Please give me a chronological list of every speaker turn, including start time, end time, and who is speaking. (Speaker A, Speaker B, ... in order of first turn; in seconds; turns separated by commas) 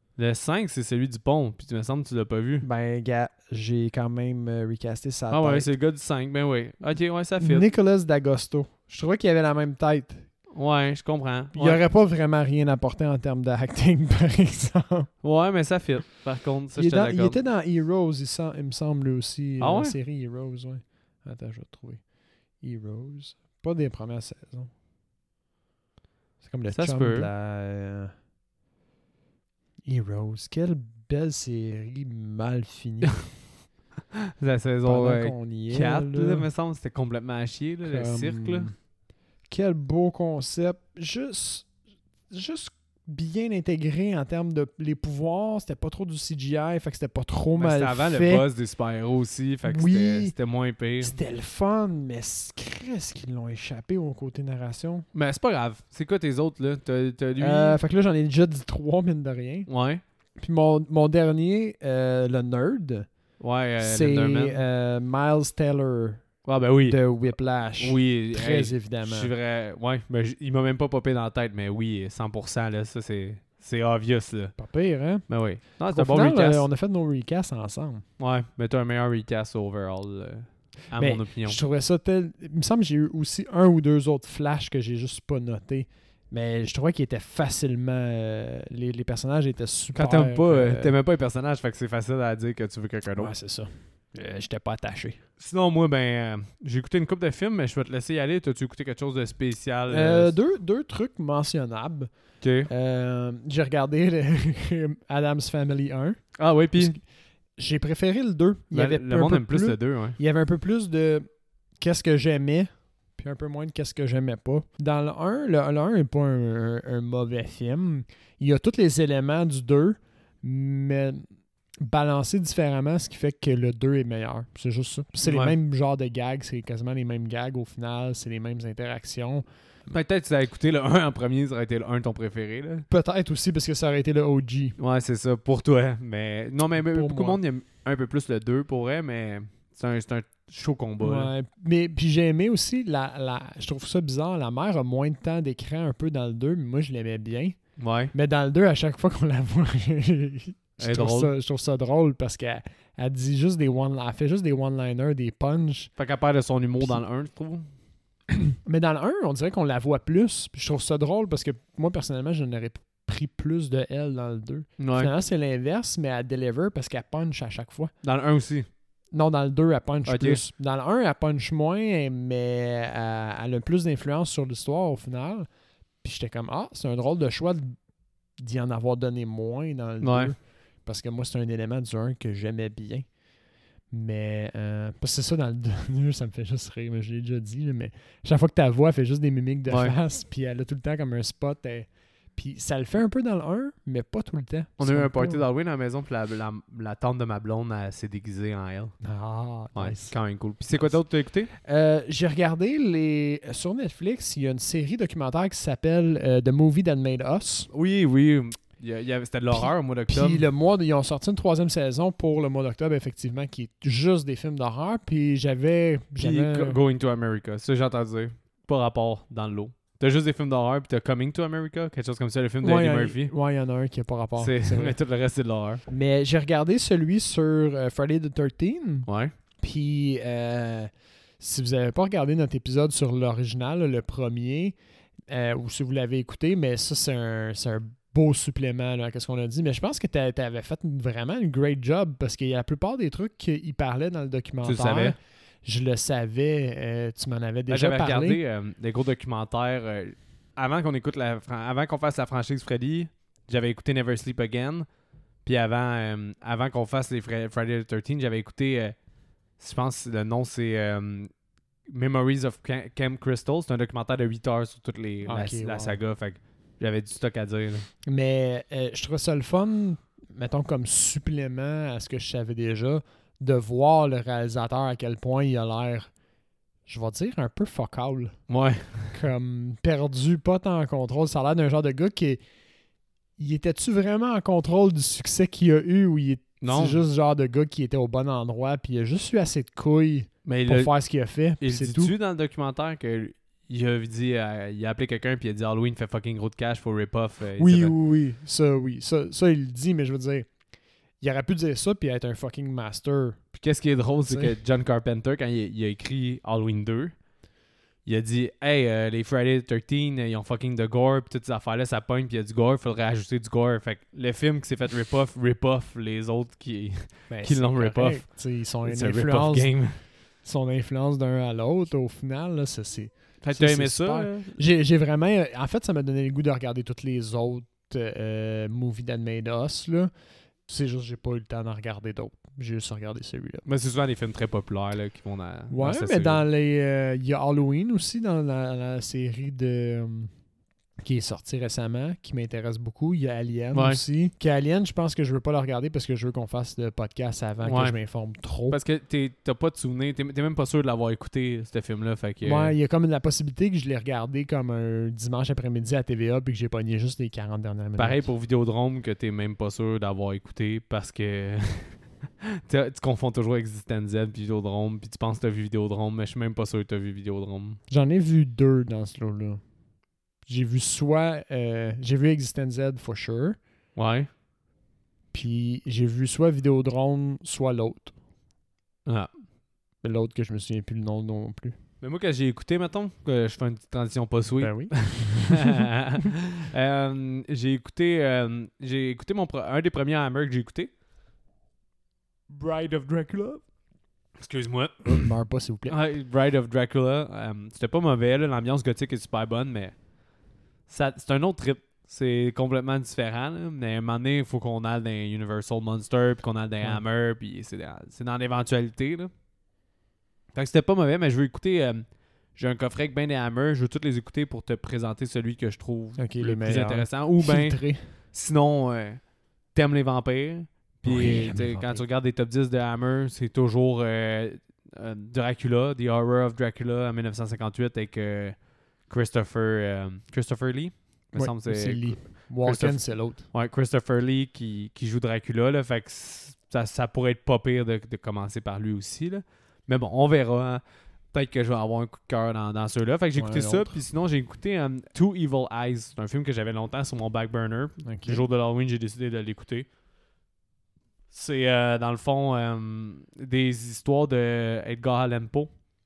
Speaker A: 0.2-2.6, Speaker B: 2.6-5.7, Speaker A: 5.3-7.7, Speaker B: 7.4-10.3, Speaker A: 10.5-11.8, Speaker B: 11.5-15.1, Speaker A: 15.2-17.4, Speaker B: 16.7-22.0, Speaker A: 19.6-20.0, Speaker B: 22.6-24.7, Speaker B: 26.4-28.1, Speaker A: 26.7-27.3, Speaker B: 29.9-33.5, Speaker A: 34.1-38.7, Speaker B: 34.8-36.5, Speaker B: 37.9-38.8, Speaker B: 39.5-41.7, Speaker B: 42.3-48.5, Speaker A: 47.6-51.2, Speaker B: 49.6-50.4, Speaker B: 51.0-55.1, Speaker A: 55.1-57.8, Speaker B: 57.4-59.7, Speaker A: 59.7-60.0, Speaker B: 60.4-63.1, Speaker A: 63.4-64.6, Speaker B: 63.8-66.3, Speaker A: 66.5-67.0, Speaker B: 66.9-69.3, Speaker A: 67.8-74.5, Speaker B: 74.6-75.3, Speaker A: 75.3-76.7, Speaker B: 75.9-78.0, Speaker A: 78.2-81.6, Speaker B: 81.0-90.9, Speaker A: 90.0-93.3, Speaker B: 93.1-95.2, Speaker A: 95.4-100.3, Speaker B: 99.9-102.1, Speaker A: 102.4-102.7, Speaker B: 102.7-107.0, Speaker A: 106.4-107.0, Speaker B: 107.6-111.3, Speaker A: 108.7-110.2, Speaker B: 111.8-121.2, Speaker B: 121.8-129.4, Speaker A: 125.2-125.6, Speaker A: 129.9-132.9, Speaker B: 132.9-134.8, Speaker A: 134.8-141.3, Speaker B: 136.8-137.4, Speaker B: 141.0-147.6, Speaker A: 147.8-148.1, Speaker B: 148.1-155.9, Speaker A: 150.8-151.3, Speaker A: 156.0-157.7, Speaker B: 158.4-167.9, Speaker A: 164.8-165.1, Speaker A: 168.0-168.7, Speaker B: 169.1-175.5, Speaker A: 170.1-170.4, Speaker B: 176.0-177.8, Speaker B: 178.4-183.1, Speaker A: 180.0-180.3, Speaker B: 183.9-195.4, Speaker A: 189.7-189.9, Speaker A: 194.8-199.0, Speaker B: 199.0-200.2, Speaker A: 199.7-201.5, Speaker B: 200.8-207.7, Speaker A: 207.7-210.4, Speaker B: 209.6-216.8, Speaker A: 216.2-223.3, Speaker B: 222.6-224.9, Speaker A: 224.4-225.8, Speaker B: 225.9-229.1, Speaker A: 229.1-229.3, Speaker B: 229.6-234.8, Speaker B: 235.3-248.4, Speaker A: 244.6-245.2, Speaker A: 247.7-254.9, Speaker A: 255.4-259.0, Speaker A: 259.6-261.3, Speaker A: 261.9-267.9, Speaker B: 265.2-266.0, Speaker B: 268.0-276.1, Speaker B: 276.9-278.4, Speaker A: 278.5-279.1, Speaker B: 279.1-282.4, Speaker B: 283.4-292.1, Speaker A: 286.6-287.0, Speaker A: 290.5-290.9, Speaker A: 291.6-297.9, Speaker B: 297.6-300.5, Speaker B: 301.2-303.4, Speaker A: 303.6-307.2, Speaker B: 304.2-304.6, Speaker A: 308.1-318.2, Speaker B: 317.3-319.8, Speaker A: 318.8-320.0, Speaker B: 320.4-330.1, Speaker A: 323.4-324.6, Speaker B: 330.7-333.7, Speaker A: 333.7-336.4, Speaker B: 335.7-340.3, Speaker B: 341.0-348.8, Speaker A: 343.7-344.0, Speaker A: 347.6-348.0, Speaker A: 348.7-352.7, Speaker B: 352.4-358.3, Speaker A: 358.0-367.8, Speaker B: 367.9-369.6, Speaker B: 370.5-373.6, Speaker A: 374.0-374.3, Speaker B: 375.3-378.2, Speaker B: 380.0-381.8, Speaker A: 382.0-390.9, Speaker B: 384.6-385.9, Speaker B: 392.5-393.6, Speaker A: 394.4-395.3, Speaker B: 395.1-395.9, Speaker A: 395.9-400.0, Speaker A: 400.9-409.3, Speaker A: 410.5-419.2, Speaker B: 416.2-418.1, Speaker A: 419.7-428.6, Speaker B: 421.1-422.0, Speaker A: 429.1-440.8, Speaker B: 431.3-433.5, Speaker A: 441.3-449.9, Speaker B: 443.4-444.0, Speaker B: 448.0-448.4, Speaker A: 451.3-455.7